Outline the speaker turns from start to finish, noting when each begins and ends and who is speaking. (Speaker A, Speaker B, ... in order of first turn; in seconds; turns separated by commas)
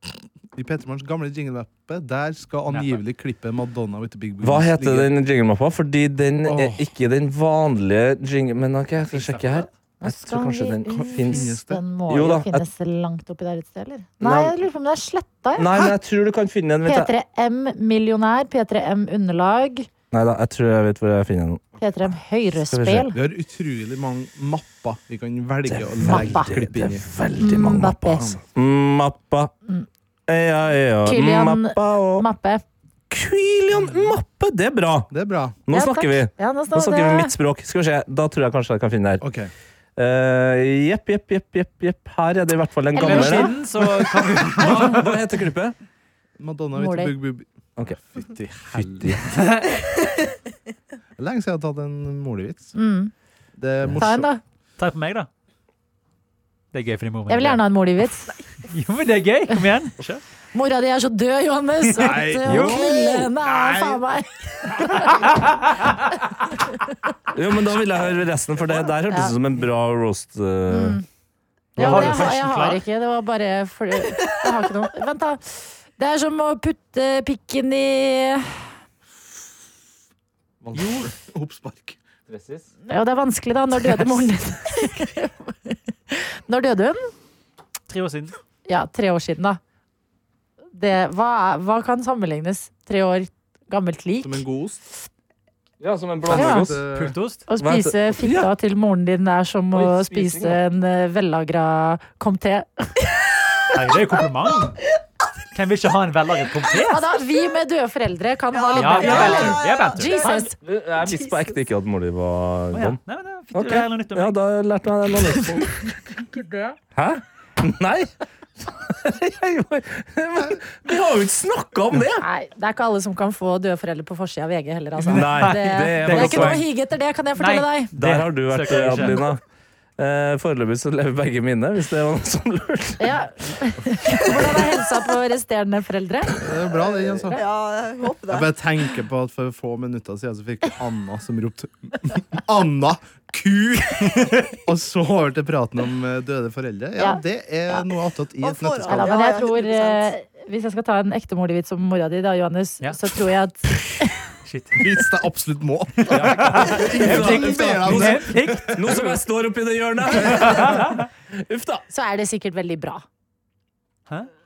Speaker A: 0.5-5.1, Speaker B: 2.7-3.0, Speaker C: 4.4-11.5, Speaker A: 6.5-6.9, Speaker B: 9.1-9.7, Speaker D: 10.0-15.7, Speaker A: 10.9-11.8, Speaker C: 12.1-12.6, Speaker C: 14.2-14.6, Speaker C: 15.6-17.1, Speaker D: 16.9-19.9, Speaker C: 20.1-21.7, Speaker D: 21.8-23.1, Speaker C: 22.7-23.1, Speaker A: 23.1-27.1, Speaker C: 25.7-29.5, Speaker D: 26.0-26.5, Speaker D: 27.4-28.3, Speaker C: 30.3-32.3, Speaker D: 31.0-32.6, Speaker C: 33.1-35.1, Speaker A: 35.1-35.6, Speaker C: 35.6-39.2, Speaker D: 35.7-37.3, Speaker A: 39.2-39.5, Speaker C: 40.0-43.6, Speaker D: 42.9-43.5, Speaker B: 43.0-45.1, Speaker C: 44.5-45.7, Speaker A: 46.4-49.2, Speaker D: 46.7-47.1, Speaker C: 48.7-49.3, Speaker B: 49.3-49.7, Speaker A: 51.2-52.7, Speaker D: 52.7-53.1, Speaker A: 53.5-54.3, Speaker D: 54.0-54.4, Speaker B: 54.8-55.3, Speaker B: 56.7-57.6, Speaker D: 57.3-58.3, Speaker B: 58.7-60.2, Speaker D: 60.5-65.4, Speaker A: 62.0-64.0, Speaker B: 62.0-62.8, Speaker C: 67.3-71.0, Speaker D: 69.1-69.3, Speaker D: 70.7-71.0, Speaker B: 71.8-72.8, Speaker C: 71.8-72.3, Speaker D: 71.8-78.6, Speaker A: 80.6-82.0, Speaker B: 80.8-81.0, Speaker C: 82.3-82.6, Speaker D: 82.9-87.1, Speaker B: 87.9-88.3, Speaker D: 88.7-89.6, Speaker D: 90.7-94.4, Speaker A: 94.2-94.8, Speaker C: 95.8-96.8, Speaker A: 96.2-97.1, Speaker D: 96.3-96.7, Speaker B: 96.9-97.5, Speaker D: 97.5-103.0, Speaker C: 97.6-98.5, Speaker C: 99.7-100.6, Speaker B: 103.7-104.8, Speaker B: 105.5-107.0, Speaker D: 106.9-110.5, Speaker E: 108.5-111.6, Speaker B: 108.7-110.2, Speaker C: 110.3-113.0, Speaker B: 112.7-114.4, Speaker C: 113.5-115.9, Speaker C: 116.9-122.2, Speaker D: 122.2-127.9, Speaker B: 125.1-126.7, Speaker C: 125.1-126.7, Speaker B: 127.4-129.2, Speaker C: 128.0-129.4, Speaker C: 130.0-133.1, Speaker D: 133.0-136.4, Speaker E: 134.3-134.8, Speaker A: 136.4-137.4, Speaker E: 137.3-138.5, Speaker A: 138.3-149.2, Speaker D: 147.0-147.8, Speaker E: 148.4-150.1, Speaker D: 148.8-154.1, Speaker B: 154.4-154.9, Speaker A: 154.8-159.1, Speaker B: 156.0-159.2, Speaker C: 156.1-161.8, Speaker B: 160.3-161.1, Speaker D: 161.9-163.0